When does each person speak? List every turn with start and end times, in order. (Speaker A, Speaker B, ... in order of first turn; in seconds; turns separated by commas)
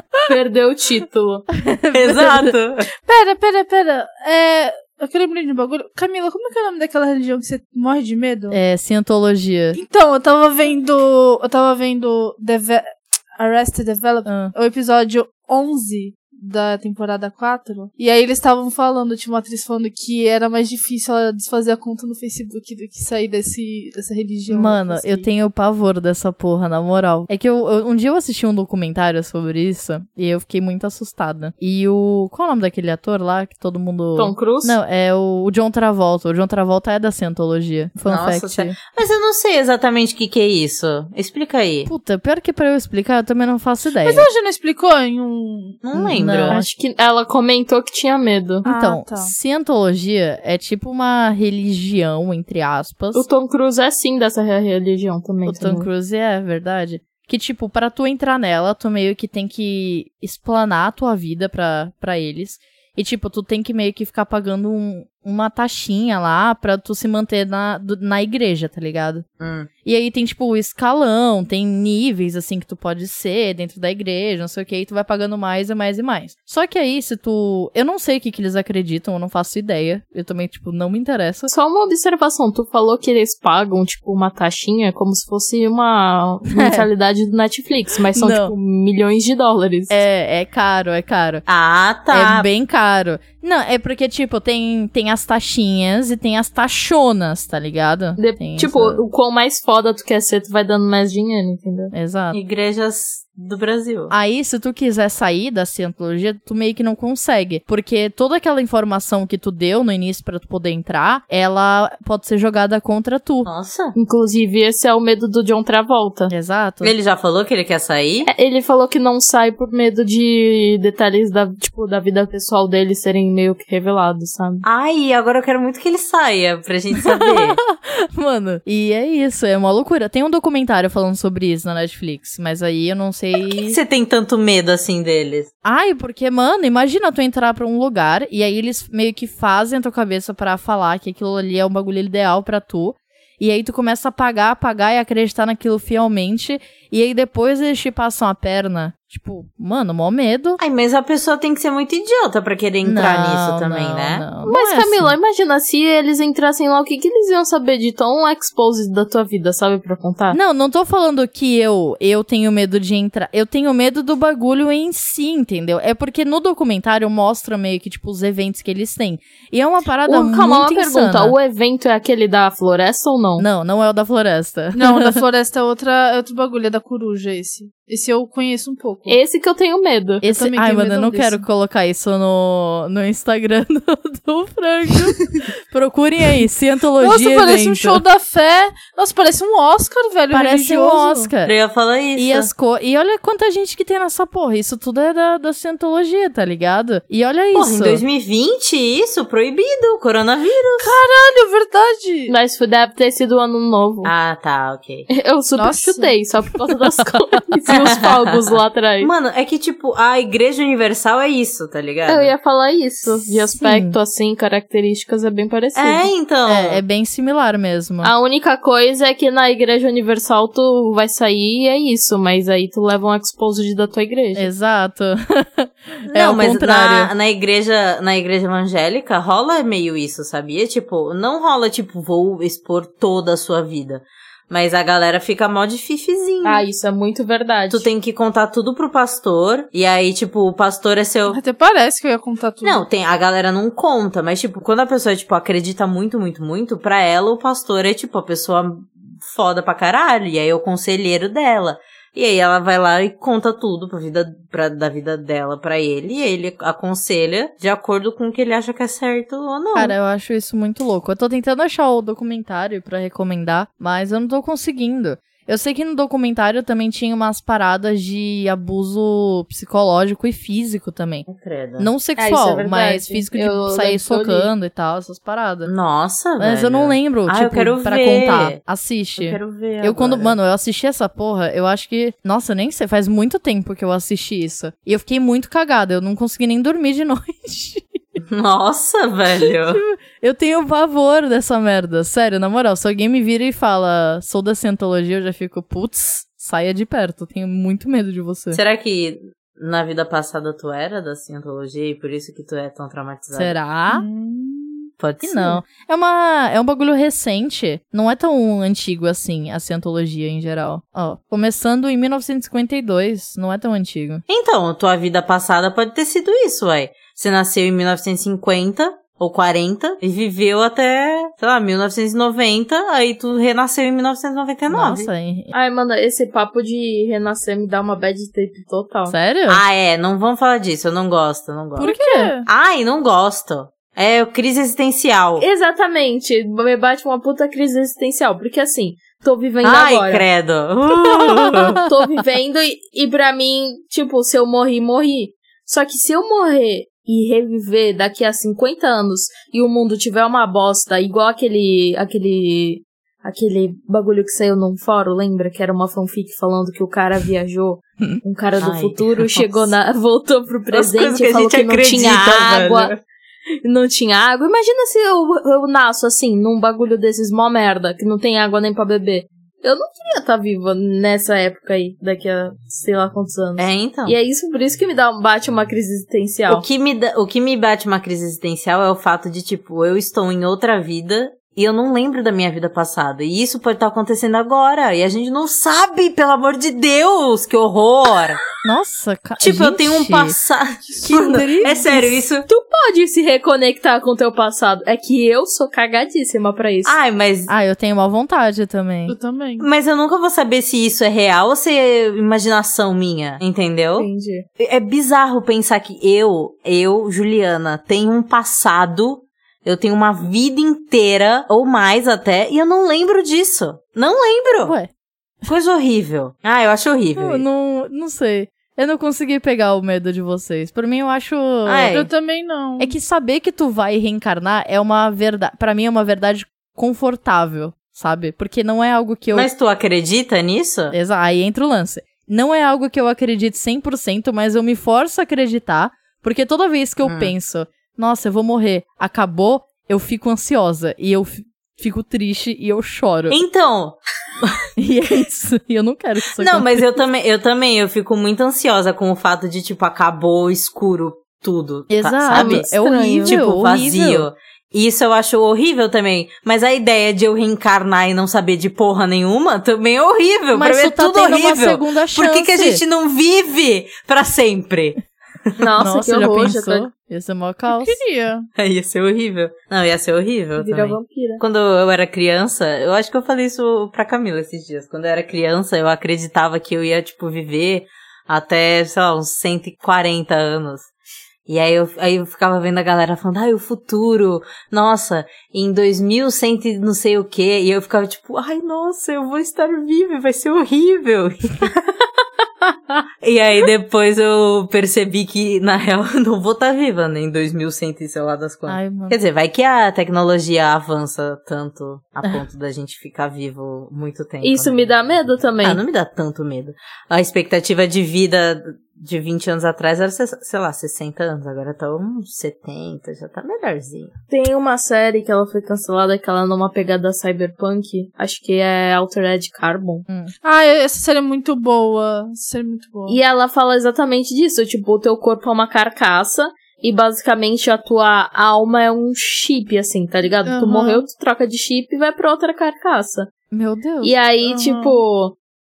Speaker A: 0.3-1.5, Speaker B: 1.6-2.5, Speaker C: 1.9-2.9, Speaker D: 3.1-8.6, Speaker B: 8.5-9.8, Speaker D: 9.8-25.3, Speaker B: 14.3-14.5, Speaker B: 24.5-38.8, Speaker A: 34.2-34.8, Speaker C: 38.1-41.9, Speaker B: 41.9-44.3, Speaker D: 44.0-45.8, Speaker C: 45.8-46.6, Speaker B: 45.9-46.7, Speaker A: 46.5-48.7, Speaker B: 48.6-53.2, Speaker D: 48.6-49.3, Speaker A: 53.1-55.9, Speaker B: 55.5-69.3, Speaker C: 69.4-69.7, Speaker B: 69.8-81.5, Speaker A: 81.5-90.0, Speaker B: 86.5-86.9, Speaker B: 88.1-88.5, Speaker B: 89.9-91.5, Speaker C: 91.5-92.5, Speaker B: 92.1-99.0, Speaker A: 98.2-101.9, Speaker B: 101.9-102.4, Speaker C: 102.3-104.1, Speaker B: 104.1-113.5, Speaker C: 113.5-114.0, Speaker A: 114.0-116.3, Speaker B: 116.3-116.9, Speaker C: 116.8-118.3, Speaker A: 118.3-124.6, Speaker C: 124.6-127.6, Speaker B: 127.1-133.8, Speaker C: 133.4-135.5, Speaker B: 135.6-150.6, Speaker C: 150.6-154.3, Speaker B: 152.8-155.2, Speaker A: 154.4-160.4, Speaker B: 160.3-171.3, Speaker A: 170.1-173.5, Speaker B: 173.4-175.2, Speaker D: 174.8-179.2, Speaker A: 179.1-180.2, Speaker B: 180.2-188.0, Speaker D: 180.3-181.4, Speaker D: 187.0-191.3, Speaker B: 190.3-191.5, Speaker C: 191.4-192.5, Speaker B: 192.2-198.0, Speaker C: 197.5-201.0, Speaker D: 200.8-202.3, Speaker A: 202.3-204.1, Speaker C: 204.0-205.1, Speaker A: 205.1-209.1, Speaker D: 205.6-206.1, Speaker C: 207.8-212.3, Speaker A: 212.1-216.1, Speaker B: 213.1-214.0, Speaker C: 215.8-216.8, Speaker B: 216.5-218.1, Speaker A: 218.0-224.5, Speaker B: 224.3-227.1, Speaker C: 226.1-236.7, Speaker A: 236.4-237.9, Speaker C: 237.7-241.4, Speaker D: 241.3-242.8, Speaker C: 242.6-260.0, Speaker B: 259.8-271.3, Speaker C: 271.3-271.9, Speaker B: 271.8-275.7, Speaker A: 272.2-274.5, Speaker C: 275.6-278.6, Speaker B: 276.4-287.9, Speaker C: 279.2-280.4, Speaker C: 288.3-289.8, Speaker B: 289.7-298.6, Speaker C: 298.5-303.6, Speaker B: 303.3-304.1, Speaker D: 303.9-304.9, Speaker C: 305.0-305.6, Speaker B: 305.2-314.2, Speaker C: 314.3-325.1, Speaker B: 324.7-325.5, Speaker A: 325.5-329.1, Speaker B: 329.1-329.6, Speaker C: 329.5-331.9, Speaker B: 331.8-332.3, Speaker D: 331.8-332.5, Speaker C: 332.4-335.5, Speaker A: 335.4-340.3, Speaker C: 339.6-341.8, Speaker A: 341.8-362.9, Speaker C: 358.6-359.7, Speaker C: 360.7-363.0, Speaker A: 363.6-376.6, Speaker C: 373.6-374.2, Speaker C: 376.5-388.4, Speaker B: 388.6-390.4, Speaker C: 389.4-392.5, Speaker D: 390.9-392.1, Speaker B: 391.3-391.6, Speaker A: 392.5-396.9, Speaker C: 396.9-397.5, Speaker B: 397.5-399.2, Speaker D: 399.1-399.7, Speaker C: 399.6-414.8, Speaker A: 404.0-404.5, Speaker B: 414.6-414.9, Speaker C: 415.5-417.4, Speaker B: 417.2-422.0, Speaker C: 421.7-422.1, Speaker D: 421.9-422.9, Speaker B: 422.8-429.5, Speaker C: 429.3-430.9, Speaker B: 430.9-443.4, Speaker C: 437.1-437.3, Speaker C: 443.3-444.0, Speaker B: 444.8-446.9, Speaker C: 446.4-452.7, Speaker B: 451.9-454.3, Speaker A: 452.3-453.4, Speaker C: 453.2-465.0, Speaker B: 460.5-462.8, Speaker A: 465.6-466.9, Speaker B: 465.8-468.0, Speaker D: 467.7-468.5, Speaker C: 468.6-480.9, Speaker A: 470.6-471.4, Speaker C: 481.5-491.7, Speaker C: 493.2-514.1, Speaker B: 498.7-499.2, Speaker A: 504.4-505.8, Speaker A: 514.3-520.1, Speaker D: 520.4-523.2, Speaker A: 523.1-533.3, Speaker D: 530.5-531.0, Speaker B: 533.5-534.1, Speaker A: 534.0-535.4, Speaker D: 534.4-535.0